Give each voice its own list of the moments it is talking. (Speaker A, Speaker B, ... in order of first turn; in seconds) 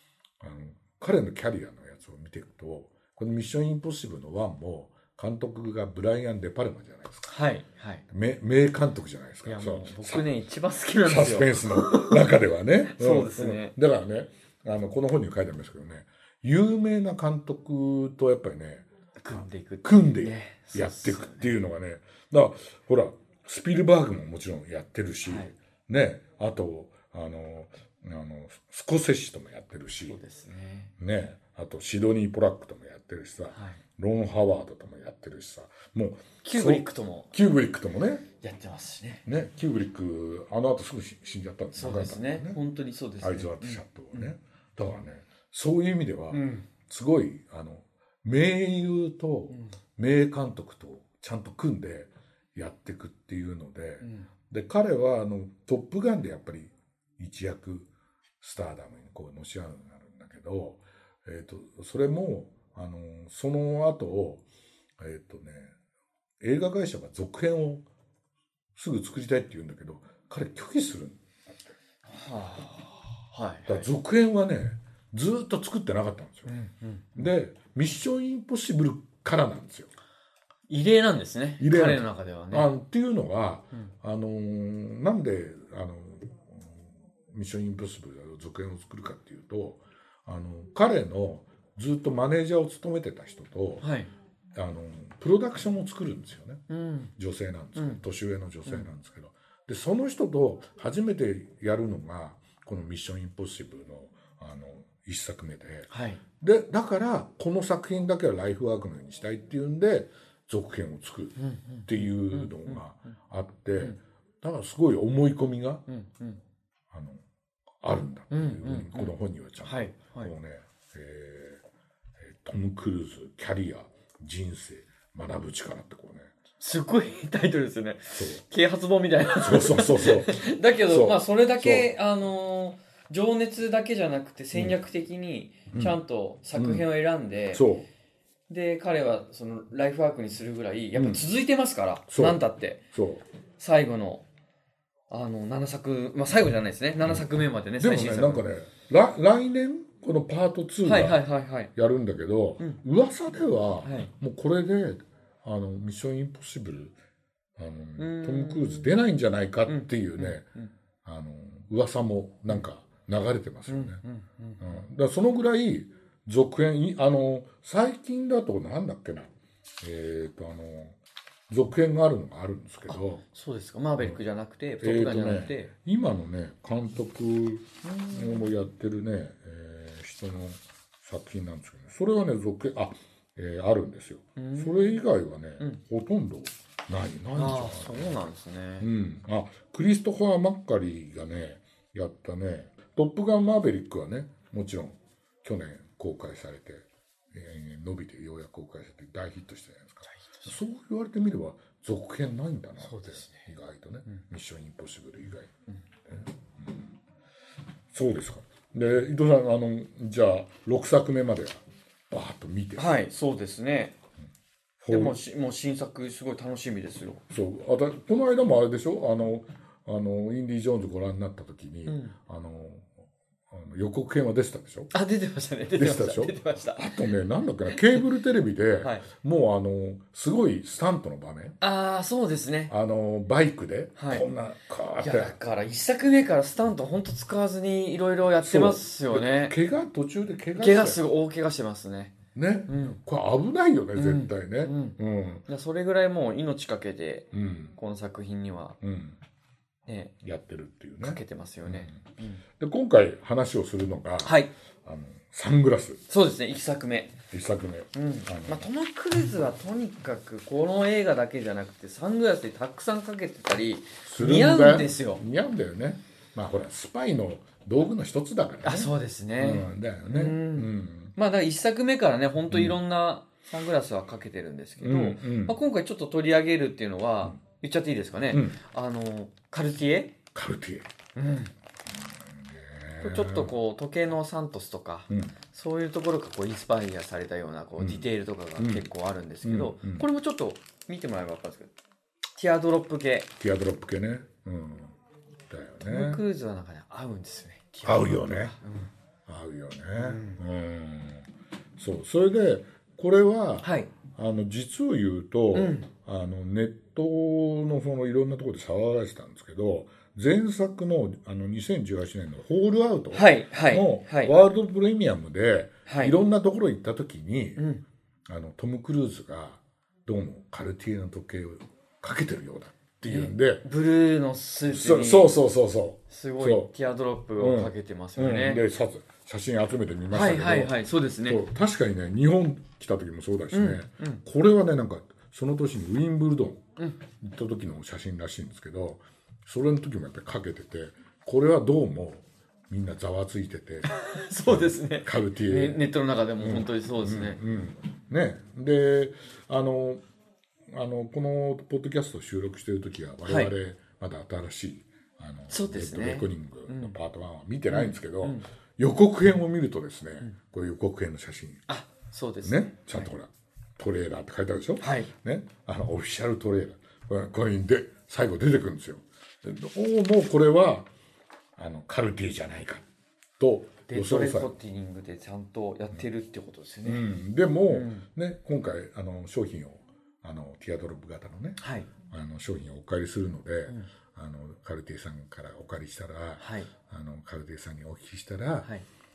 Speaker A: 0.4-7.3, 8.1-10.3, 11.0-30.2, 31.0-38.2, 39.2-42.6, 43.2-57.9, 58.4-64.4, 65.0-65.7, 66.4-67.8, 68.7-71.2, 73.7-76.5, 77.2-79.9, 81.6-93.9, 94.5-96.6, 97.2-105.9, 106.4-115.8, 116.9-117.2, 117.8-121.6, 122.2-126.3, 128.1-128.4, 129.4-131.9, 135.7-136.0, 136.5-136.9, 137.5-137.9, 140.9-141.3, 142.1-142.4, 142.9-143.2, 147.8-157.0, 157.6-160.4, 161.0-164.0, 164.6-171.0, 171.5-173.2, 174.8-205.5, 206.1-207.0, 207.9-213.1, 214.8-215.2, 217.3-224.9, 225.7-231.6, 232.7-235.3, 238.4-241.0, 242.3-245.4, 247.3-247.7, 248.8-249.2, 250.2-252.0, 252.6-256.0, 257.3-258.6, 264.0-271.1, 272.5-272.8, 274.8-275.6, 278.3-278.6, 280.3-280.9, 281.9-283.5, 285.1-285.4, 287.8-288.9, 289.4-290.1, 293.4-294.9, 295.5-296.2, 297.8-298.6, 299.2-317.7, 318.3-323.6, 324.7-326.7, 327.4-343.9, 344.5-345.8, 346.4-350.0, 350.7-361.7, 362.4-370.9, 371.6-372.9, 373.4-374.5, 376.8-388.7
Speaker B: 7.3-8.0, 9.4-12.2, 12.8-13.7, 19.2-21.5, 25.2-25.5, 30.1-30.9, 33.5-33.8, 36.4-37.3, 38.4-39.2, 41.7-44.3, 46.3-46.6, 49.5-49.7, 54.0-54.3, 72.1-73.9, 76.5-77.3, 80.7-82.7, 93.8-94.1, 96.7-97.1, 97.8-98.0, 105.9-106.2, 111.4-112.8, 115.9-116.4, 118.3-120.3, 126.6-137.6, 138.5-142.8, 143.6-144.2, 145.1-148.5, 150.8-151.7, 153.8-154.1, 158.0-159.0, 159.7-160.7, 163.7-164.8, 172.9-175.7, 177.8-178.5, 184.3-185.0, 187.3-188.9, 200.1-200.5, 202.8-203.4, 212.8-213.9, 214.9-217.2, 221.9-222.1, 224.9-226.9, 227.7-228.0, 228.8-229.1, 231.6-232.7, 234.0-234.2, 235.0-239.6, 240.6-242.2, 242.7-243.0, 243.9-248.8, 249.8-250.1, 251.0-252.4, 254.2-254.5, 256.1-257.2, 257.9-265.2, 268.6-280.2, 281.1-281.5, 283.0-291.7, 292.4-293.3, 295.9-298.9, 300.0-300.4, 303.6-303.9, 305.5-305.9, 313.1-314.3, 315.9-316.1, 317.6-317.8, 323.1-325.4, 326.1-328.6, 330.1-331.4, 333.5-334.2, 343.9-347.4, 353.3-353.5, 355.5-356.9, 357.7-358.4, 361.7-363.1, 364.8-365.1, 373.9-377.0, 377.7-378.1, 381.6-381.9, 386.4-386.7